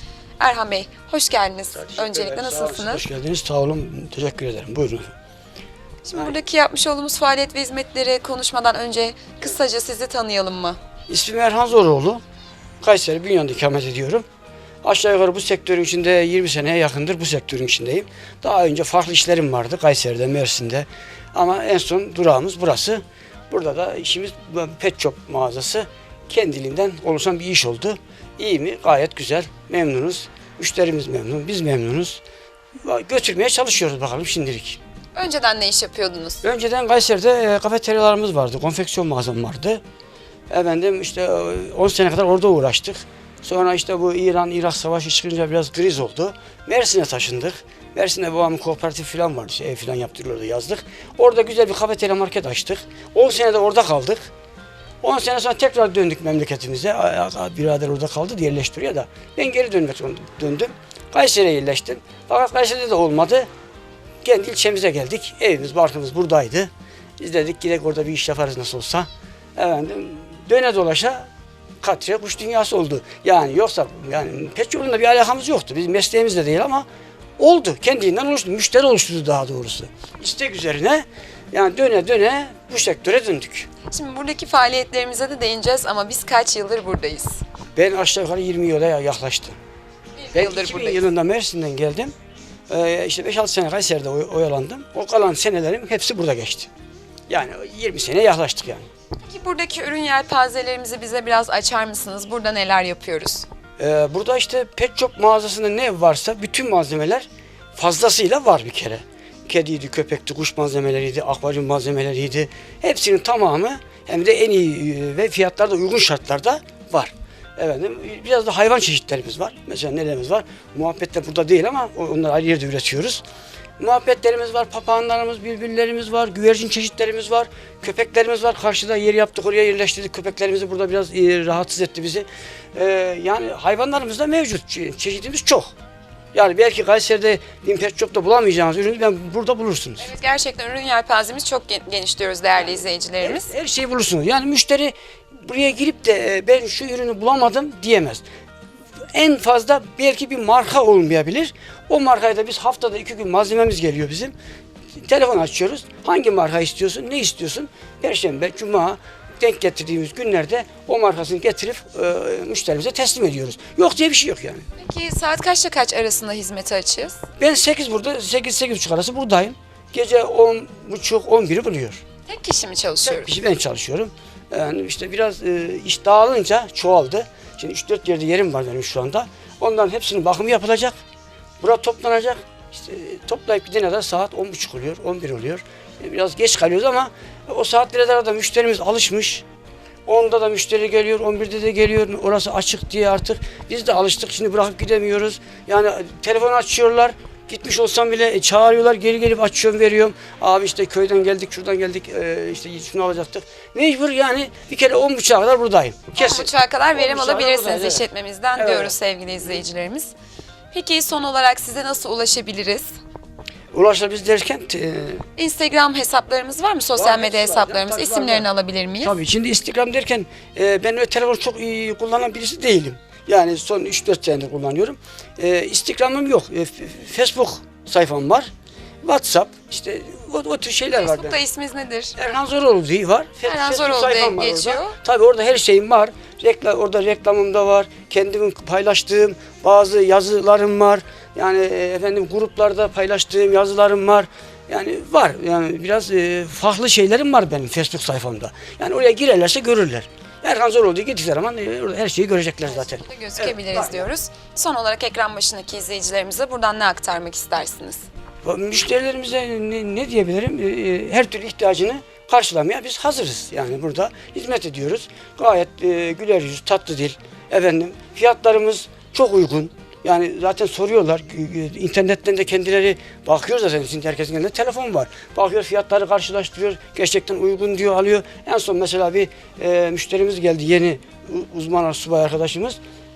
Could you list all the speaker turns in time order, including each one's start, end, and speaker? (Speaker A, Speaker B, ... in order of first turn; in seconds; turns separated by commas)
Speaker A: 0.4-3.0, Speaker B: 1.8-5.1, Speaker A: 6.0-10.8, Speaker B: 11.1-12.2, Speaker B: 12.8-14.2, Speaker B: 14.8-32.2, Speaker B: 32.8-34.8, Speaker A: 35.1-36.4, Speaker B: 36.4-39.8, Speaker B: 40.5-54.3, Speaker B: 55.0-63.5, Speaker B: 64.2-71.3, Speaker B: 71.8-76.8, Speaker B: 77.4-83.7, Speaker A: 83.9-87.4, Speaker B: 87.8-89.6, Speaker A: 90.2-91.1, Speaker B: 90.3-92.1, Speaker B: 92.7-96.7, Speaker B: 97.3-98.9, Speaker A: 99.2-103.5, Speaker B: 103.8-123.2, Speaker B: 123.8-135.7, Speaker B: 136.3-140.1, Speaker A: 140.0-143.5, Speaker B: 143.2-148.2, Speaker B: 149.1-154.3, Speaker B: 155.0-164.7, Speaker A: 164.8-167.2, Speaker B: 167.4-172.0, Speaker A: 172.3-173.3, Speaker B: 173.0-181.0, Speaker B: 181.6-189.4, Speaker B: 190.1-208.0, Speaker A: 206.2-210.1, Speaker B: 208.6-209.6, Speaker A: 210.7-212.9, Speaker B: 213.7-215.2, Speaker A: 215.4-219.1, Speaker B: 216.9-218.5, Speaker B: 219.0-228.5, Speaker B: 229.0-231.4, Speaker A: 231.0-232.1, Speaker B: 232.2-254.1, Speaker A: 233.4-234.9, Speaker A: 252.9-258.0, Speaker B: 258.4-282.8